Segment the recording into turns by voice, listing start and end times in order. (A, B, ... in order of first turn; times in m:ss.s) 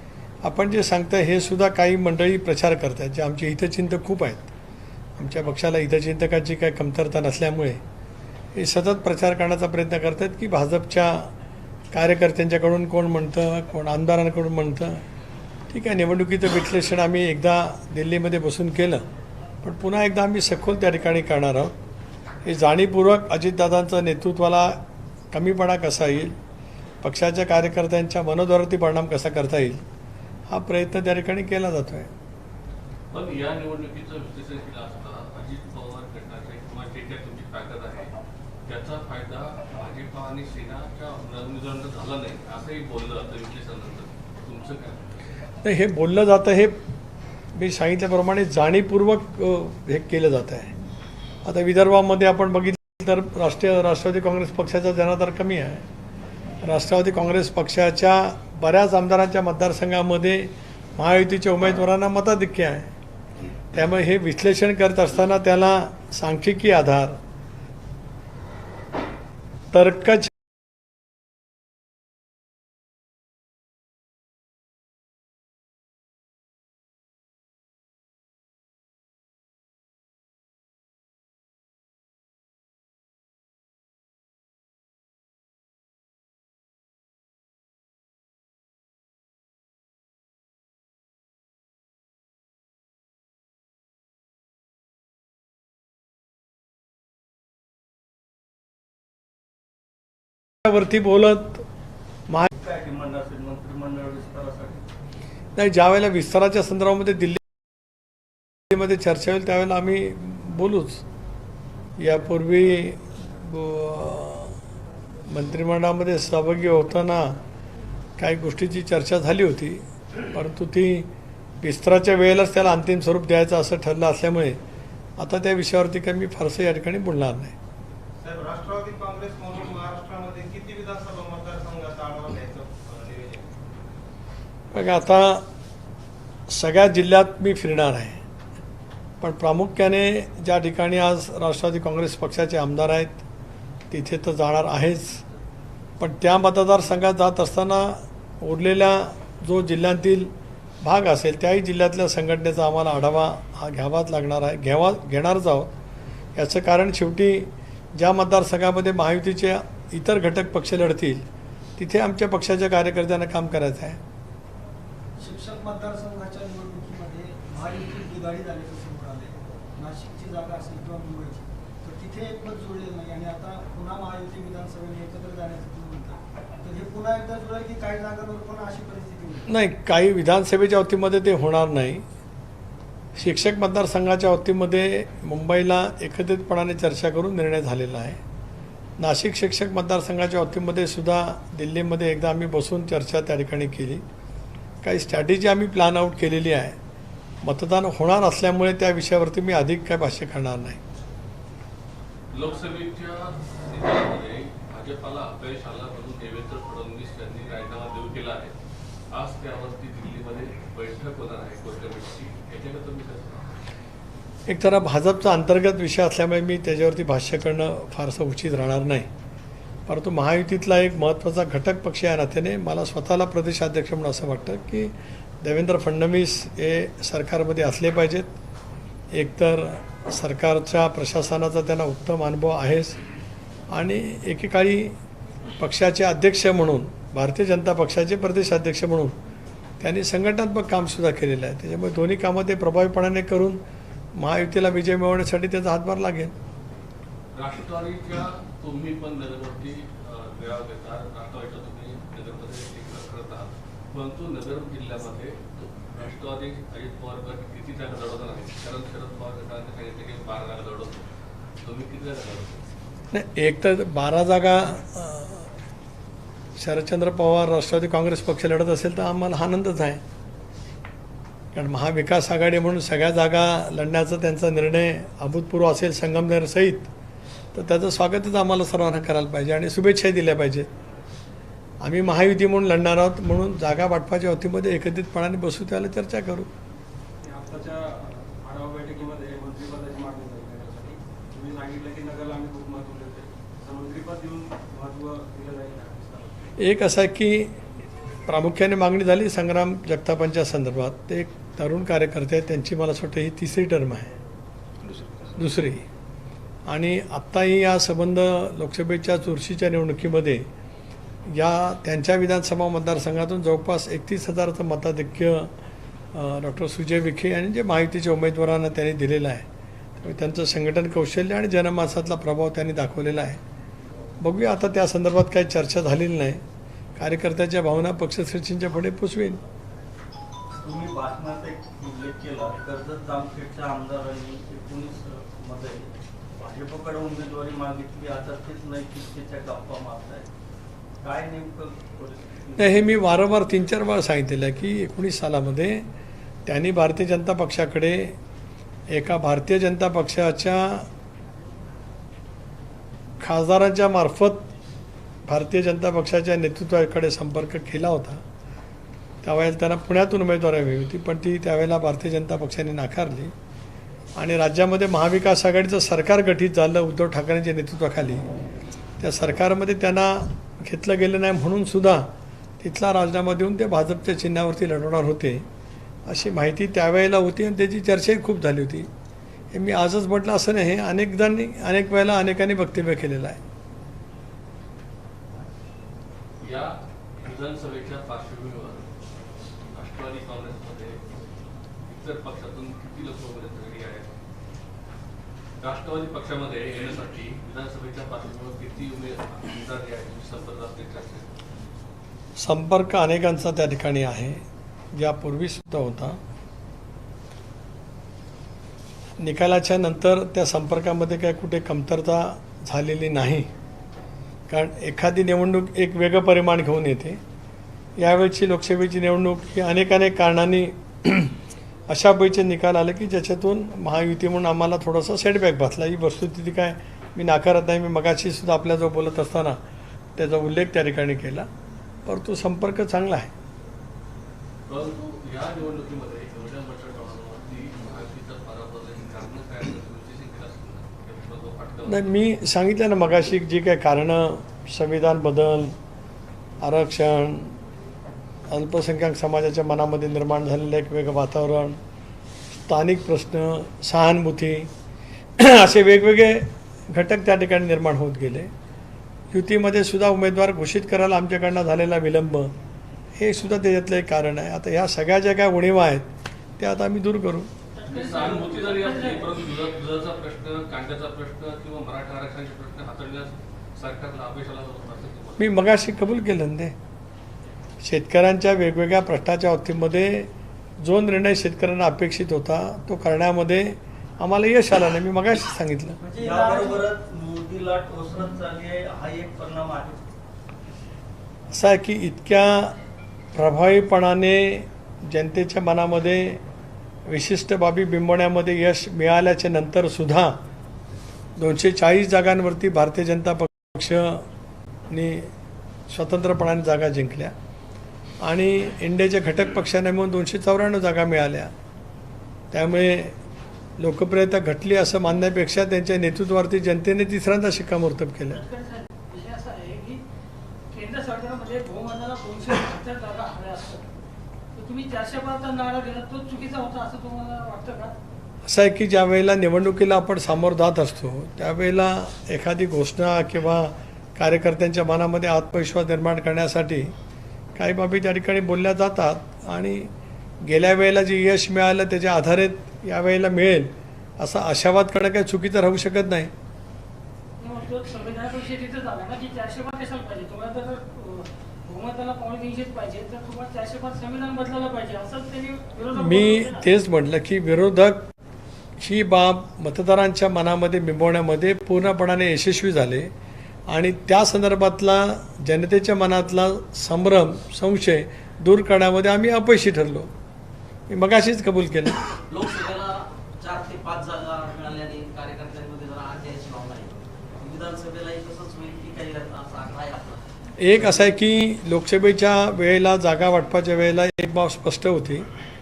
0:00.4-0:04.5 A
0:05.2-0:07.8 A
0:08.6-0:11.3 A
0:11.9-0:15.0 A
0:15.7-0:19.0 A
0:19.6-0:21.8 A
0:22.4-0:24.8 A
0:25.3-0:26.4 A
0:27.0-0:29.8 A
0:30.5-0:32.1 A
0:33.1-0:38.1 B
0:38.7-0:45.1 B
0:45.6-0:46.8 A
0:47.6-0:50.7 A
0:51.4-0:55.9 A
0:56.6-1:02.9 A
1:03.7-1:07.2 A
1:09.7-1:10.3 A
1:40.6-1:41.6 A
1:42.5-1:44.8 C
1:45.6-1:47.4 A
1:48.7-1:51.0 A
1:52.0-1:54.6 A
1:55.3-1:57.4 A
1:58.2-2:01.1 A
2:01.6-2:04.6 A
2:05.2-2:07.6 A
2:08.2-2:13.5 D
2:14.7-2:15.4 A
2:16.5-2:18.2 A
2:19.2-2:23.2 A
2:23.9-2:25.2 A
2:26.0-2:35.7 A
2:36.4-2:41.3 A
2:41.8-2:44.0 A
2:45.2-2:59.5 E
2:59.5-3:02.0 A
3:03.2-3:08.2 A
3:09.0-3:14.0 A
3:14.8-3:16.8 A
3:17.4-3:20.8 A
3:22.3-3:28.5 B
3:29.1-3:33.5 B
3:34.5-3:39.1 A
3:39.9-3:48.3 A
3:49.1-3:53.0 A
3:53.7-3:55.0 A
3:55.6-3:59.2 A
3:59.8-4:03.6 A
4:04.2-4:06.3 A
4:07.4-4:21.0 B
4:21.6-4:22.6 B
4:23.1-4:25.5 A
4:26.6-4:30.0 A
4:31.5-4:36.9 A
4:37.5-4:40.7 A
4:41.8-4:46.5 A
4:47.2-4:56.5 F
4:56.6-4:57.6 A
4:58.3-5:04.1 A
5:05.4-5:05.9 A
5:06.7-5:10.5 A
5:11.3-5:15.5 A
5:16.1-5:19.5 A
5:20.0-5:23.4 A
5:24.2-5:26.4 A
5:27.0-5:29.4 A
5:30.6-5:40.3 C
5:41.0-5:43.0 C
5:42.6-5:45.9 A
5:46.5-5:48.2 A
5:48.9-5:50.9 A
5:53.2-5:54.5 A
5:55.3-5:58.2 A
5:59.2-6:03.3 A
6:04.2-6:08.3 A
6:09.0-6:15.4 A
6:16.1-6:18.9 A
6:19.5-6:23.4 A
6:26.4-6:28.9 B
6:29.7-6:31.0 B
6:31.9-6:34.1 B
6:35.6-6:41.3 B
6:42.4-6:46.2 A
6:49.2-6:53.5 A
6:54.5-6:57.2 A
6:58.0-7:01.4 A
7:01.9-7:09.6 A
7:10.2-7:11.5 A
7:12.1-7:13.3 A
7:14.7-7:22.1 B
7:21.9-7:25.8 A
7:26.6-7:27.6 A
7:28.5-7:31.8 A
7:32.6-7:34.7 A
7:35.4-7:38.5 A
7:39.3-7:42.5 A
7:43.2-7:46.1 A
7:46.6-7:47.5 A
7:47.8-7:49.3 G
7:47.9-7:55.6 B
7:55.4-7:56.8 A
7:57.8-8:00.3 A
8:00.8-8:06.0 A
8:06.0-8:06.9 E
8:06.2-8:10.1 C
8:11.5-8:12.8 A
8:13.4-8:16.4 A
8:17.1-8:20.4 A
8:21.4-8:24.3 A
8:24.9-8:25.3 A
8:25.9-8:27.3 A
8:28.2-8:31.5 A
8:32.5-8:33.2 A
8:33.8-8:38.4 A
8:38.3-8:40.0 G
8:40.7-8:43.9 G
8:44.6-8:47.9 G
8:48.5-8:56.9 A
8:57.6-8:59.9 A
9:00.4-9:06.3 A
9:07.4-9:16.7 G
9:16.0-9:18.1 A
9:18.8-9:23.1 A
9:23.7-9:30.1 A
9:30.9-9:32.0 A
9:32.3-9:41.1 H
9:40.6-9:45.3 A